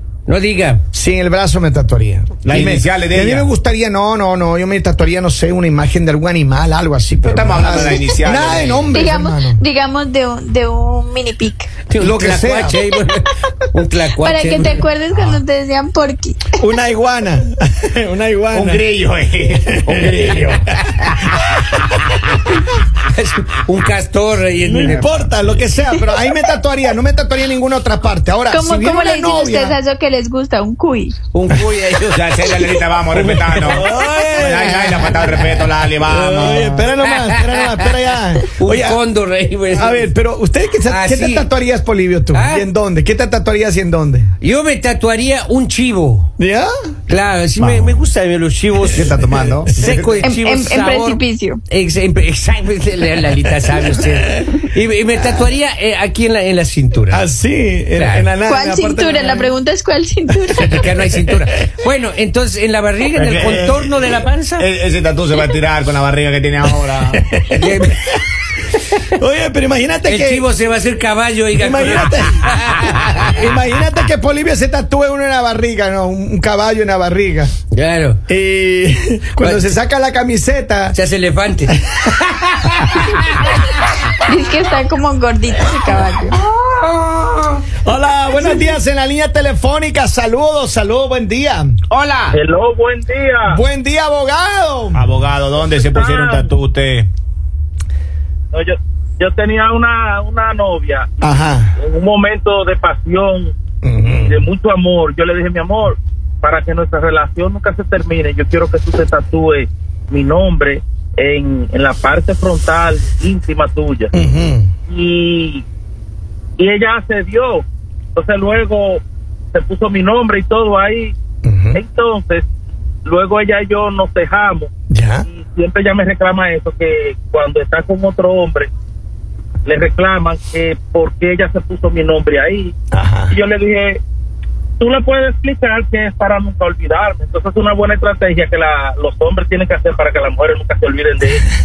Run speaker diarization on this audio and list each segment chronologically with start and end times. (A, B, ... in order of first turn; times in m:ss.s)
0:00.3-0:00.8 A
0:00.9-0:09.6 B
0:02.4-0:03.5 C
0:07.2-0:08.9 C
0:08.9-0:11.7 D
0:11.9-0:14.8 A
0:12.0-0:12.8 B
0:14.2-0:16.6 D
0:15.1-0:15.4 C
0:16.6-0:18.8 B
0:18.5-0:22.2 C
0:20.0-0:20.5 B
0:22.6-0:25.0 A
0:24.6-0:29.8 B
0:24.8-0:25.5 C
0:28.5-0:31.1 D
0:31.3-0:35.7 A
0:32.1-0:36.7 C
0:33.6-0:35.1 B
0:36.0-0:39.0 B
0:36.5-0:38.0 A
0:38.5-0:40.1 A
0:39.7-0:44.3 B
0:40.8-0:41.5 A
0:42.3-0:42.6 A
0:44.4-0:46.3 A
0:46.4-0:46.7 B
0:47.1-0:49.2 A
0:48.9-0:50.2 C
0:49.0-0:49.6 B
0:49.7-0:57.2 A
0:50.2-0:51.6 D
0:57.1-0:59.5 B
0:57.9-0:58.3 A
0:58.4-1:00.8 D
1:00.6-1:04.7 A
1:03.1-1:07.2 C
1:07.1-1:08.2 B
1:07.5-1:08.0 A
1:09.1-1:10.5 B
1:10.1-1:13.4 A
1:11.6-1:17.5 B
1:17.7-1:18.2 A
1:18.3-1:21.0 B
1:19.4-1:19.7 A
1:20.9-1:21.8 A
1:22.3-1:23.1 A
1:24.1-1:26.4 D
1:26.4-1:27.6 C
1:27.8-1:31.8 B
1:31.9-1:32.4 C
1:32.3-1:33.6 E
1:33.5-1:35.1 B
1:34.9-1:37.1 C
1:35.7-1:36.5 E
1:38.5-1:43.5 E
1:41.2-1:41.7 B
1:43.8-1:44.4 B
1:44.0-1:54.1 E
1:54.1-1:54.7 B
1:54.9-1:55.6 E
1:56.6-2:01.1 E
2:01.4-2:01.8 B
2:01.7-2:02.4 E
2:03.0-2:04.7 E
2:04.9-2:05.2 B
2:05.3-2:08.7 E
2:09.6-2:12.7 E
2:12.9-2:13.3 B
2:13.3-2:14.0 E
2:14.8-2:21.4 E